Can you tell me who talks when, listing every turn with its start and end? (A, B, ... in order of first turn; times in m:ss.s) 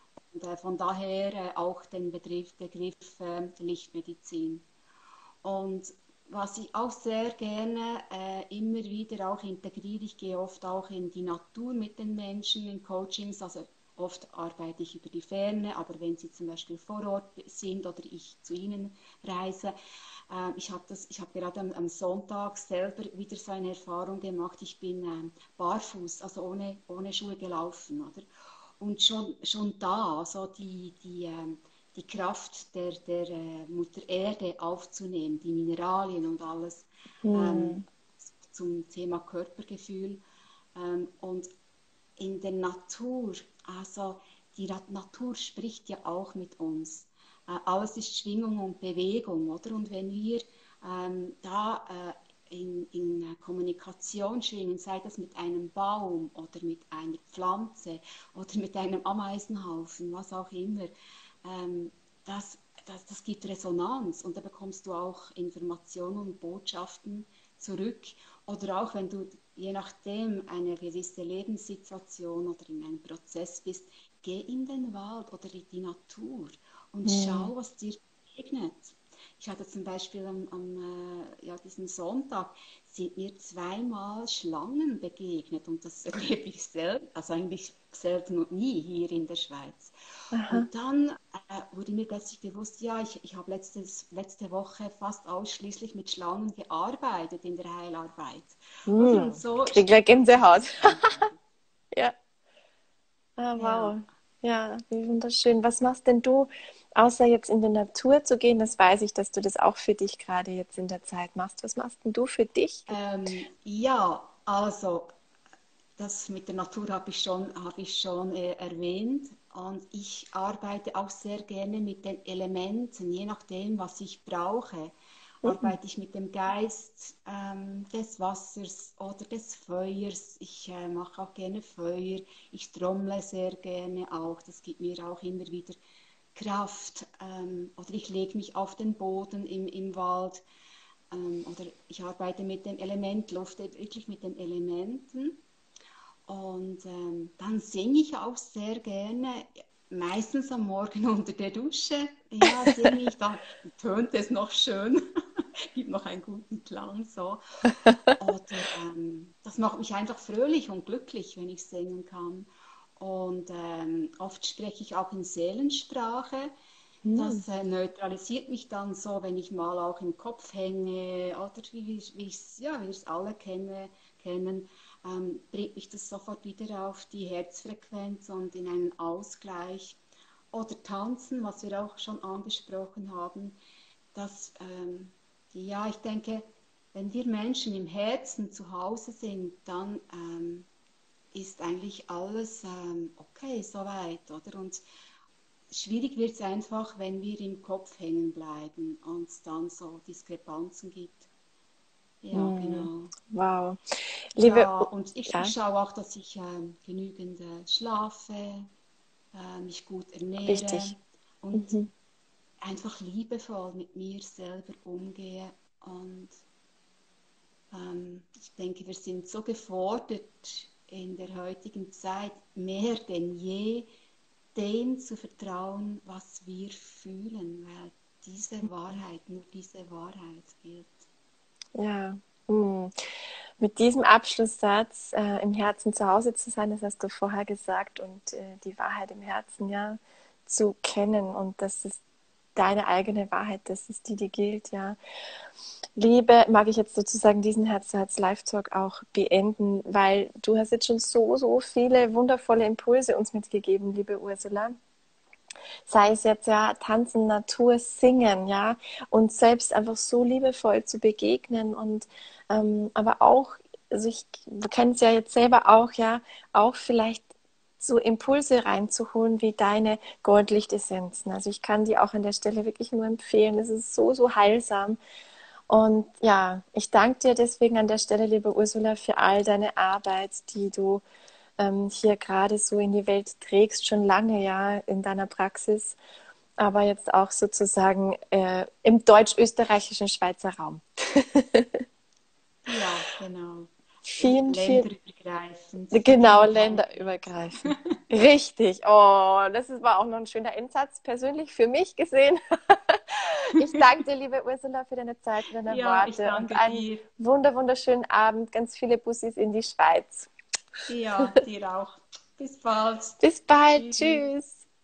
0:00.3-0:04.6 A
0:05.4-0:19.7 A
0:20.3-0:28.2 A
0:28.8-0:40.2 A
0:37.2-0:37.8 B
0:40.7-0:41.5 A
0:42.2-1:00.9 A
1:01.4-1:29.9 A
1:17.0-1:17.5 B
1:30.3-1:30.7 B
1:30.4-1:41.4 A
1:38.9-1:41.1 B
1:43.4-1:53.0 B
1:43.6-1:44.0 A
1:52.9-1:55.1 A
1:56.0-2:15.8 A
2:05.4-2:05.7 B
2:16.3-2:20.4 A
2:21.1-2:25.4 A
2:26.3-2:35.0 A
2:35.7-2:37.4 A
2:38.2-2:46.5 A
2:47.0-2:47.4 B
2:47.1-3:00.0 A
3:00.5-3:03.6 A
3:04.1-3:10.7 A
3:11.3-3:14.8 A
3:15.7-3:21.3 A
3:22.2-3:23.1 A
3:22.3-3:25.5 B
3:24.4-3:28.7 A
3:29.3-3:31.8 A
3:30.4-3:30.9 B
3:31.5-3:31.9 B
3:32.6-3:36.4 A
3:37.7-3:43.9 A
3:44.5-3:51.0 A
3:51.7-3:52.9 B
3:53.6-4:02.0 B
4:02.5-4:05.0 B
4:06.0-4:14.8 B
4:15.9-4:27.3 B
4:27.8-4:35.0 B
4:35.7-4:41.0 B
4:41.6-4:46.0 B
4:46.6-4:51.8 B
4:52.6-4:57.8 A
4:54.0-4:54.9 B
4:55.9-5:10.3 B
5:05.7-5:07.0 A
5:10.9-5:13.2 A
5:13.2-5:14.6 B
5:13.7-5:14.3 A